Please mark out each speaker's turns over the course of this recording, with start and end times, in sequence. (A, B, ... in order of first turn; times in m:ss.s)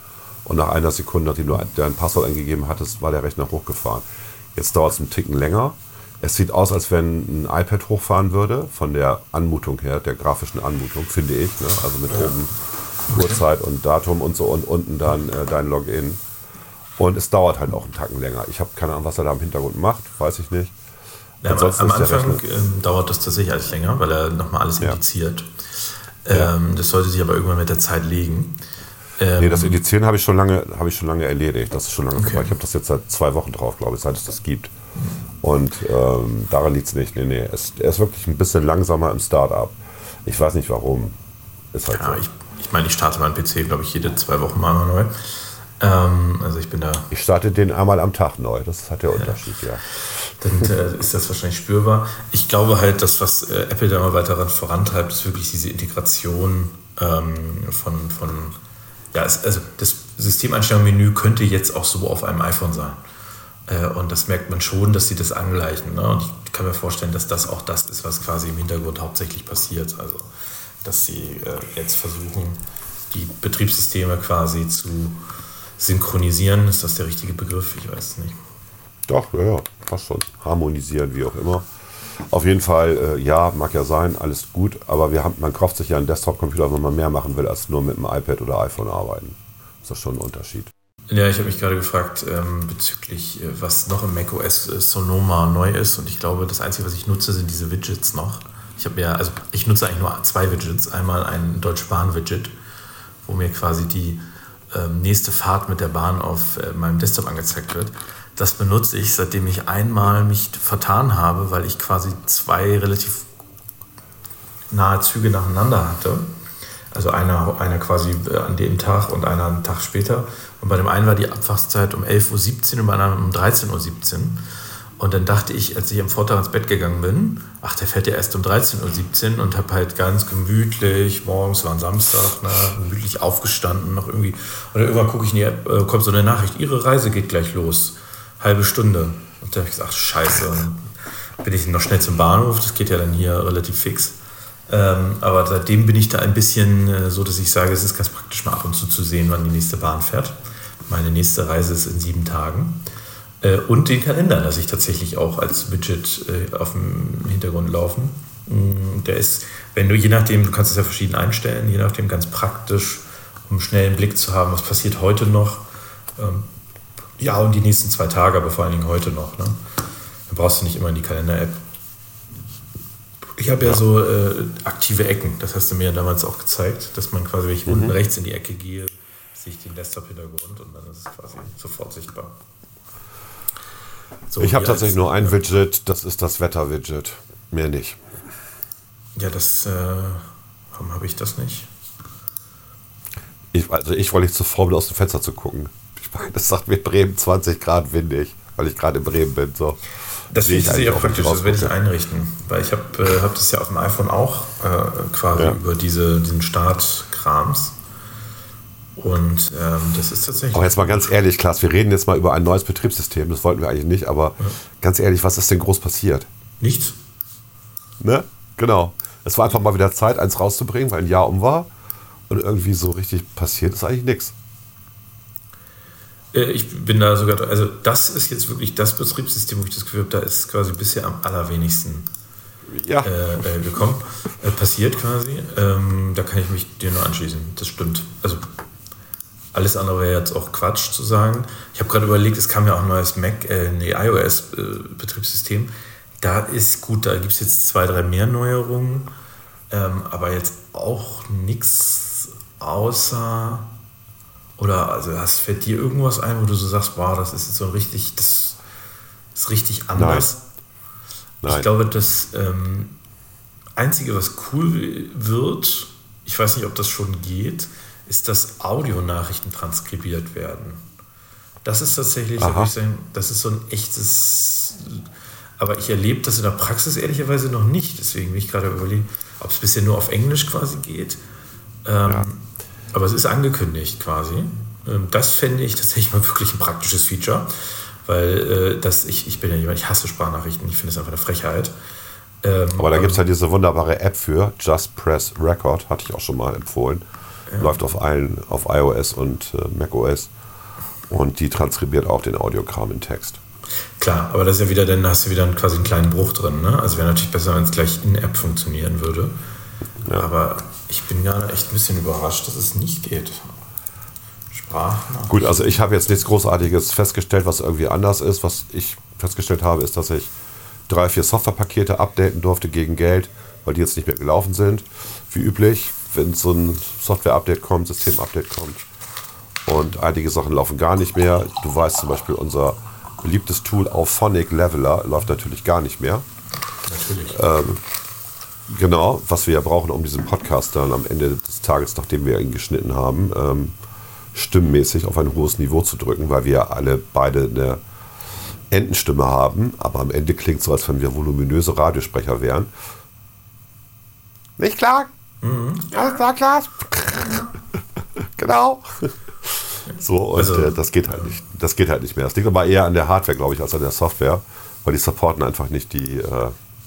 0:00.4-0:16.2 A
0:12.1-0:12.3 B
0:13.1-0:13.4 B
0:17.0-0:20.7 A
0:21.4-0:28.6 B
0:21.4-0:22.4 A
0:29.2-0:29.8 B
0:29.4-0:34.7 A
0:32.1-0:32.5 B
0:35.4-0:41.2 A
0:41.7-0:42.2 A
0:41.9-0:47.1 B
0:47.1-0:49.8 A
0:50.4-0:58.6 B
0:59.1-1:03.0 B
1:03.7-1:10.3 B
1:10.8-1:15.2 B
1:15.8-1:18.4 B
1:19.1-1:21.7 A
1:22.2-1:30.7 A
1:31.1-1:42.5 B
1:43.2-1:53.3 B
1:54.7-1:56.3 B
1:56.9-2:04.4 B
2:05.0-2:24.2 B
2:24.7-2:32.8 B
2:33.4-2:46.5 B
2:47.2-2:49.6 B
2:50.3-2:51.6 B
2:53.3-3:02.4 B
2:57.6-2:58.0 A
3:04.3-3:05.4 B
3:04.4-3:08.0 A
3:09.2-3:11.7 B
3:13.5-3:19.8 A
3:20.3-3:27.8 B
3:20.4-3:21.7 A
3:29.0-3:31.2 B
3:30.5-3:36.3 A
3:36.6-3:37.0 B
3:38.0-3:41.7 A
3:42.3-3:44.3 A
3:46.3-3:52.1 B
3:52.7-3:53.1 A
3:53.0-3:58.5 B
3:59.5-4:09.1 B
4:09.7-4:13.7 B
4:14.6-4:18.6 B
4:19.3-4:20.4 B
4:20.0-4:20.3 A
4:21.4-4:21.7 A
4:21.4-4:23.0 B
4:23.8-4:30.8 B
4:31.6-4:35.0 B
4:32.4-4:32.7 A
4:35.6-4:41.2 B
4:41.8-4:51.8 B
4:52.4-4:53.2 B
4:52.7-4:57.0 A
4:57.5-4:57.8 B
4:57.6-5:00.3 A
5:01.1-5:03.4 A
5:04.0-5:09.4 B
5:10.1-5:13.6 B
5:14.5-5:15.6 B
5:15.3-5:20.3 A
5:20.9-5:28.8 A
5:29.6-5:36.2 A
5:36.8-5:37.4 B
5:37.3-5:37.8 A
5:38.7-5:43.7 A
5:44.3-5:47.8 A
5:48.7-5:52.7 A
5:54.6-5:55.1 A
5:55.4-5:56.0 B
5:55.9-5:57.5 A
5:58.2-6:06.5 A
6:00.4-6:00.8 B